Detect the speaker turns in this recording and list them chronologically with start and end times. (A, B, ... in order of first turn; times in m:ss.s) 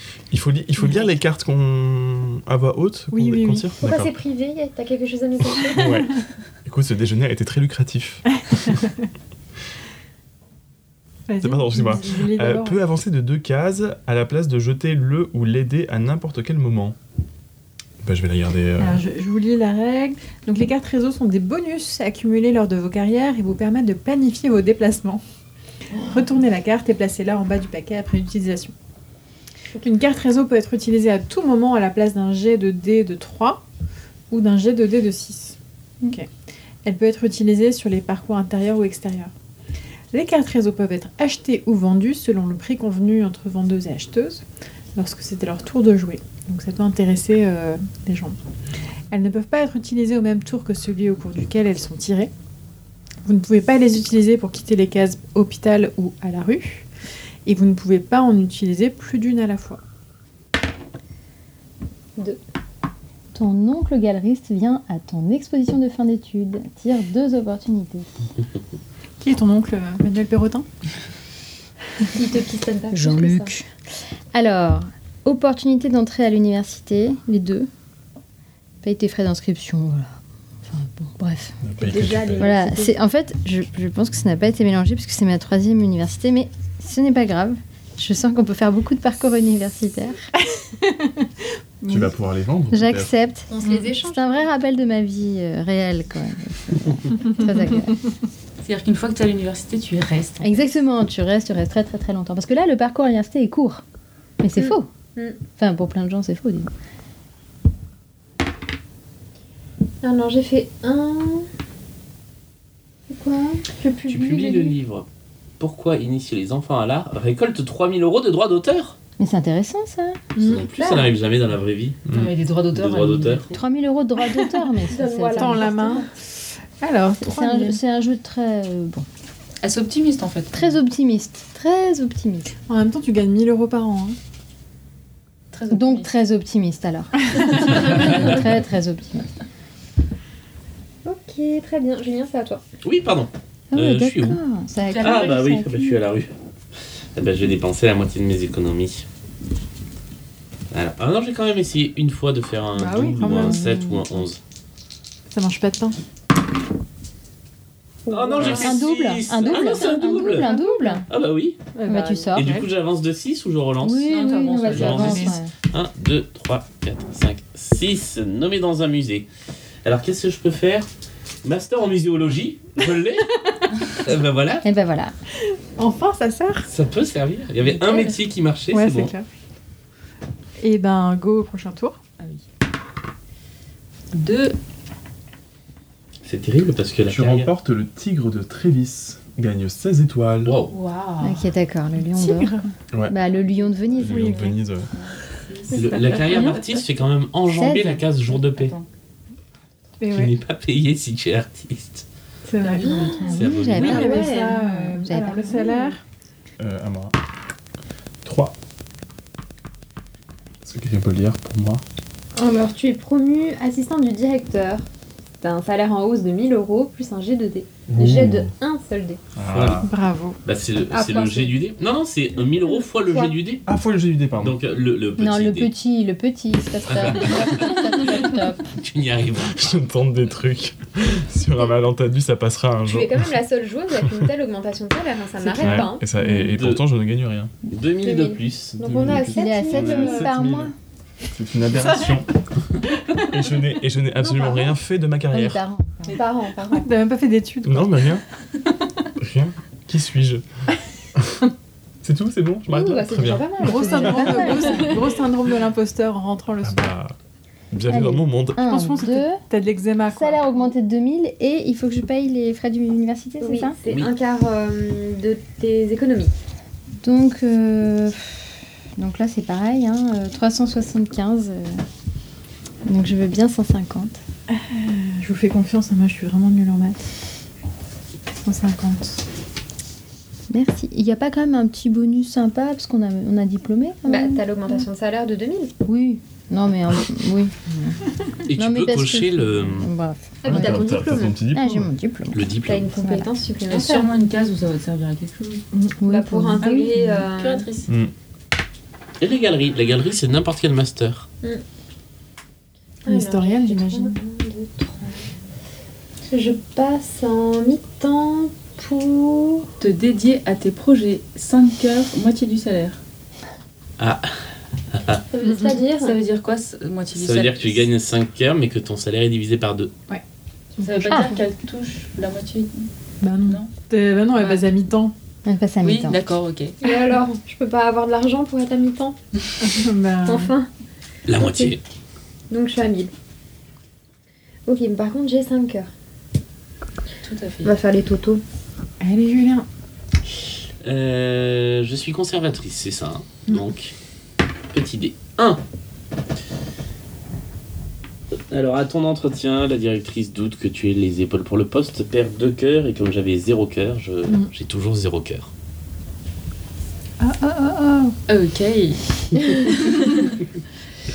0:00.3-0:04.1 A
0:00.8-0:01.1 B
0:03.1-0:03.7 B
0:03.8-0:06.1 C
0:05.6-0:08.8 A
0:11.3-0:12.8 B
0:11.4-0:17.0 A
0:18.0-0:19.0 A
0:18.8-0:25.2 B
0:26.0-0:28.7 B
0:29.8-0:33.6 B
0:34.3-0:35.6 B
0:36.8-0:39.3 B
0:40.1-0:44.4 B
0:44.9-0:48.4 B
0:49.1-0:52.3 B
0:53.2-0:56.9 B
0:57.4-0:59.8 B
1:03.3-1:08.1 D
1:09.2-1:10.6 B
1:12.1-1:13.5 C
1:12.9-1:13.7 D
1:14.3-1:17.7 D
1:18.8-1:21.6 D
1:21.6-1:22.5 A
1:21.8-1:23.0 C
1:22.4-1:30.3 D
1:30.5-1:31.3 B
1:31.8-1:32.1 B
1:31.9-1:33.1 A
1:32.7-1:38.0 D
1:33.5-1:34.5 C
1:38.6-1:40.5 E
1:40.4-1:43.8 D
1:44.4-1:44.9 D
1:45.5-1:46.7 D
1:50.0-1:51.5 C
1:53.1-1:54.8 C
1:54.1-1:55.0 F
1:55.6-1:59.0 F
1:59.2-2:00.2 D
2:00.4-2:00.6 B
2:00.4-2:02.0 F
2:00.8-2:01.1 C
2:02.1-2:03.6 E
2:02.7-2:03.4 F
2:03.5-2:05.7 D
2:04.8-2:06.1 C
2:05.3-2:07.8 B
2:07.2-2:09.0 D
2:09.6-2:10.8 E
2:10.5-2:12.5 D
2:12.7-2:14.2 B
2:15.5-2:16.1 E
2:15.7-2:19.3 D
2:17.8-2:18.4 E
2:17.9-2:18.3 F
2:21.0-2:22.6 C
2:22.8-2:24.4 F
2:23.7-2:25.7 D
2:24.8-2:25.6 E
2:25.0-2:26.3 F
2:27.1-2:29.0 F
2:30.7-2:34.4 F
2:32.8-2:33.6 B
2:33.2-2:34.1 D
2:35.3-2:36.0 B
2:38.0-2:38.7 C
2:38.1-2:40.5 F
2:38.4-2:41.0 D
2:40.5-2:40.8 C
2:41.1-2:41.6 F
2:41.8-2:42.6 B
2:41.8-2:42.5 D
2:42.3-2:49.3 F
2:43.8-2:45.5 D
2:44.0-2:45.4 E
2:44.7-2:45.3 B
2:49.8-2:50.9 F
2:51.4-2:54.6 F
2:54.6-2:55.1 D
2:55.5-2:56.7 B
2:56.7-2:59.1 F
2:57.6-2:58.2 E
2:58.7-2:59.2 B
3:00.6-3:02.0 B
3:02.2-3:02.4 E
3:04.1-3:04.6 E
3:06.2-3:07.5 F
3:07.0-3:10.5 A
3:10.4-3:10.7 F
3:10.7-3:11.5 E
3:11.2-3:14.5 D
3:12.0-3:12.6 B
3:12.9-3:13.2 A
3:13.2-3:14.2 E
3:14.0-3:14.9 A
3:14.0-3:14.5 B
3:14.8-3:16.8 E
3:15.7-3:16.6 C
3:15.7-3:18.7 F
3:17.5-3:18.0 D
3:18.1-3:18.9 E
3:20.0-3:20.3 B
3:20.1-3:22.0 F
3:22.4-3:26.0 B
3:22.6-3:23.5 E
3:22.8-3:24.6 C
3:23.3-3:24.2 F
3:23.4-3:25.8 D
3:26.6-3:27.1 A
3:28.2-3:28.5 A
3:30.6-3:31.8 A
3:32.4-3:34.8 C
3:35.4-3:39.2 C
3:37.9-3:38.5 A
3:39.3-3:39.9 A
3:39.5-3:39.9 F
3:39.8-3:40.4 B
3:40.4-3:43.6 F
3:40.9-3:41.6 C
3:42.7-3:43.3 C
3:43.6-3:44.6 A
3:44.4-3:45.7 F
3:45.2-3:48.6 D
3:46.9-3:49.7 F
3:49.6-3:53.3 A
3:52.8-3:56.0 C
3:55.5-3:55.8 B
3:55.6-3:57.5 A
3:56.2-3:56.5 D
3:56.5-3:56.8 F
3:57.7-3:58.9 F
3:58.0-4:00.3 C
3:58.8-4:00.7 A
3:59.2-4:00.7 D
4:01.3-4:02.3 A
4:03.2-4:05.6 A
4:05.3-4:06.1 D
4:06.1-4:06.9 C
4:06.8-4:08.2 B
4:07.6-4:08.2 A
4:09.2-4:10.4 A
4:11.1-4:11.4 A
4:12.0-4:13.5 A
4:12.7-4:15.2 C
4:13.6-4:16.9 B
4:13.7-4:15.0 D
4:16.6-4:17.1 A
4:17.7-4:18.7 A
4:17.9-4:19.4 D
4:18.7-4:20.5 B
4:20.1-4:23.8 D
4:23.4-4:26.3 C
4:27.0-4:31.8 D
4:32.8-4:34.2 D
4:34.5-4:37.0 B
4:38.4-4:39.2 B
4:40.5-4:44.8 D
4:44.0-4:45.7 C
4:45.8-4:48.0 D
4:48.5-4:49.9 F
4:48.5-4:50.8 D
4:50.4-4:51.4 C
4:50.5-4:51.9 A
4:51.5-4:52.4 D
4:52.3-4:52.9 F
4:52.6-4:54.1 C
4:52.9-4:53.3 D
4:53.7-4:55.6 E
4:55.7-4:56.0 B
4:56.0-4:57.0 D
4:56.0-4:57.7 C
4:56.6-4:57.9 E
4:57.9-4:58.1 A
4:59.2-5:01.3 F
5:03.0-5:05.2 C
5:03.1-5:04.1 B
5:06.3-5:09.7 C
5:09.8-5:13.0 E
5:14.0-5:14.3 F
5:14.9-5:15.2 F
5:15.3-5:16.2 C
5:15.9-5:17.9 E
5:17.1-5:19.9 F
5:20.8-5:21.4 B
5:20.8-5:22.9 E
5:23.2-5:25.1 B
5:23.5-5:23.7 E
5:24.3-5:24.7 E
5:25.4-5:26.2 D
5:25.8-5:26.8 E
5:26.8-5:29.2 C
5:29.6-5:30.5 B
5:30.2-5:30.7 C
5:31.3-5:31.8 F
5:31.3-5:31.8 C
5:32.5-5:33.1 C
5:34.7-5:35.9 C
5:37.2-5:37.7 E
5:37.6-5:38.4 C
5:39.0-5:39.6 B
5:40.8-5:43.9 F
5:44.7-5:45.6 F
5:48.5-5:55.5 F
5:57.2-5:58.2 B
5:58.3-6:00.2 E